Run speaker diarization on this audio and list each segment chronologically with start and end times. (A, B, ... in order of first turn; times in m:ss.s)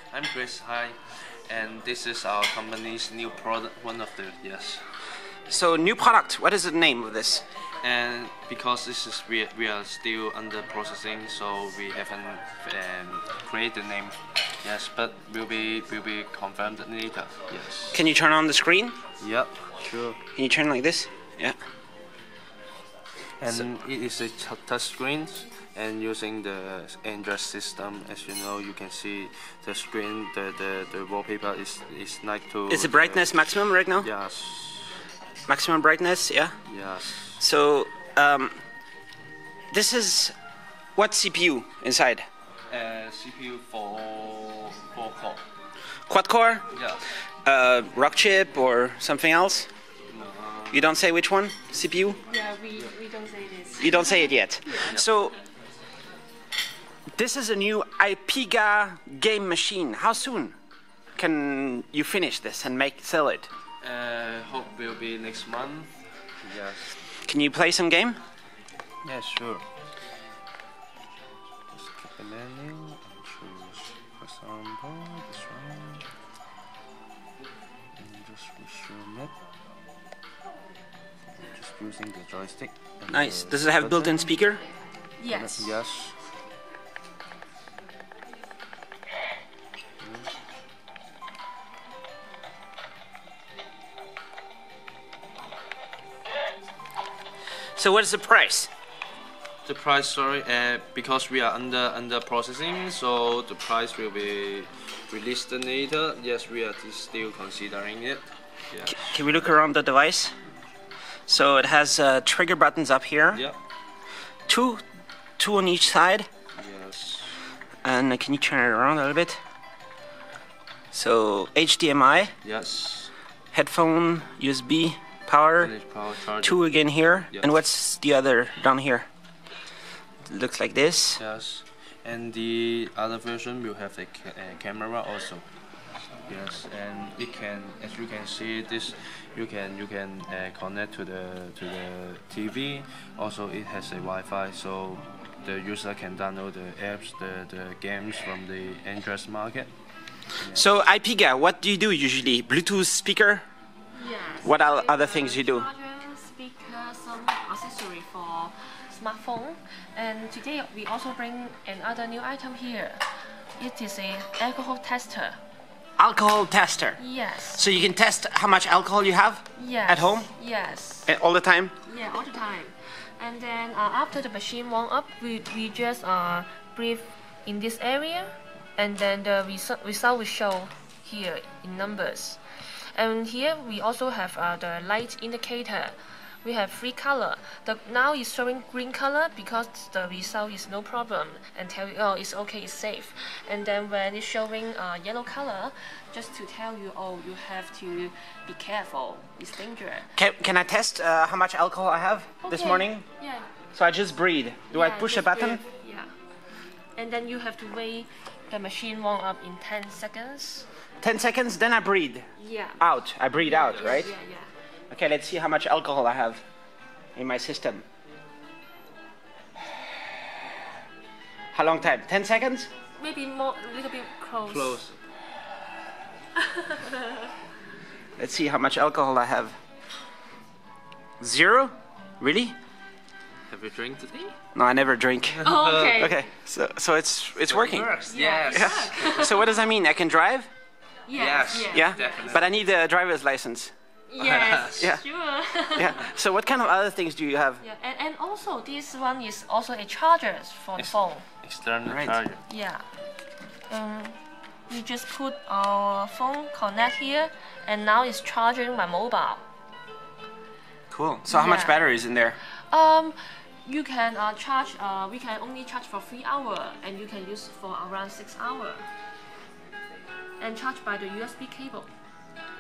0:00.1-0:04.8 A
0:05.5-0:07.4 B
0:07.8-0:18.0 A
0:17.9-0:19.0 B
0:19.2-0:20.2 A
0:20.4-0:21.6 B
0:23.4-0:35.0 A
0:32.7-0:34.1 B
0:35.5-0:36.6 B
0:36.7-0:37.4 A
0:37.4-0:38.6 B
0:39.7-0:40.3 B
0:41.0-0:42.2 B
0:42.7-0:45.4 A
0:46.1-0:46.6 B
0:46.7-0:47.0 A
0:47.4-0:49.7 B
0:50.1-0:50.9 A
0:50.7-0:52.2 B
0:52.3-0:55.0 C
0:53.8-0:55.4 B
0:57.2-1:00.6 B
1:01.2-1:03.5 B
1:03.8-1:05.9 A
1:06.4-1:06.9 A
1:07.3-1:08.2 B
1:09.0-1:09.6 A
1:11.7-1:16.0 A
1:18.0-1:19.3 A
1:21.3-1:24.4 A
1:23.1-1:24.6 B
1:25.2-1:25.7 C
1:25.3-1:26.2 A
1:30.0-1:30.3 A
1:37.8-1:38.7 B
1:39.7-1:49.3 A
1:48.9-1:50.3 B
1:51.3-1:53.4 B
1:54.5-1:54.8 B
1:55.4-1:56.3 B
1:56.6-1:57.3 A
1:57.8-1:59.4 B
2:00.9-2:02.3 B
2:02.4-2:03.1 A
2:03.5-2:05.7 B
2:05.6-2:06.7 A
2:06.4-2:09.1 B
2:10.3-2:11.2 B
2:11.2-2:15.4 A
2:16.3-2:29.7 A
2:30.4-2:30.6 A
2:30.5-2:33.4 B
2:33.9-2:45.4 C
2:34.4-2:35.7 B
2:46.0-2:47.0 B
2:47.0-2:47.6 C
2:47.5-2:50.3 B
2:49.6-2:51.1 C
2:51.1-2:51.7 B
2:51.9-3:20.1 C
3:20.2-3:23.0 B
3:22.4-3:23.5 C
3:23.8-3:25.6 B
3:24.7-3:26.1 C
3:27.0-3:30.6 C
3:31.0-3:32.3 B
3:32.4-3:32.8 C
3:32.8-3:34.1 B
3:33.4-3:34.5 C
3:34.9-3:36.4 B
3:37.2-3:37.8 B
3:41.5-3:42.7 B
3:43.0-3:44.8 C
3:44.5-3:45.0 A
3:46.4-3:47.3 C
3:48.2-3:49.6 B
3:51.2-3:52.6 B
3:53.5-3:54.4 A
3:54.6-4:00.5 B
3:55.3-3:56.1 A
3:55.4-3:56.2 C
3:57.5-3:59.4 A
3:58.1-3:59.6 C
4:01.1-4:02.4 C
4:01.1-4:02.5 A
4:01.7-4:03.7 B
4:04.1-4:06.1 C
4:04.2-4:04.8 A
4:04.8-4:05.0 B
4:05.8-4:07.6 B
4:07.6-4:11.2 C
4:10.8-4:12.4 A
4:11.9-4:12.2 B
4:12.5-4:12.9 C
4:13.7-4:19.4 C
4:20.9-4:22.4 B
4:21.3-4:21.8 C
4:22.7-4:28.9 C
4:30.4-4:31.9 C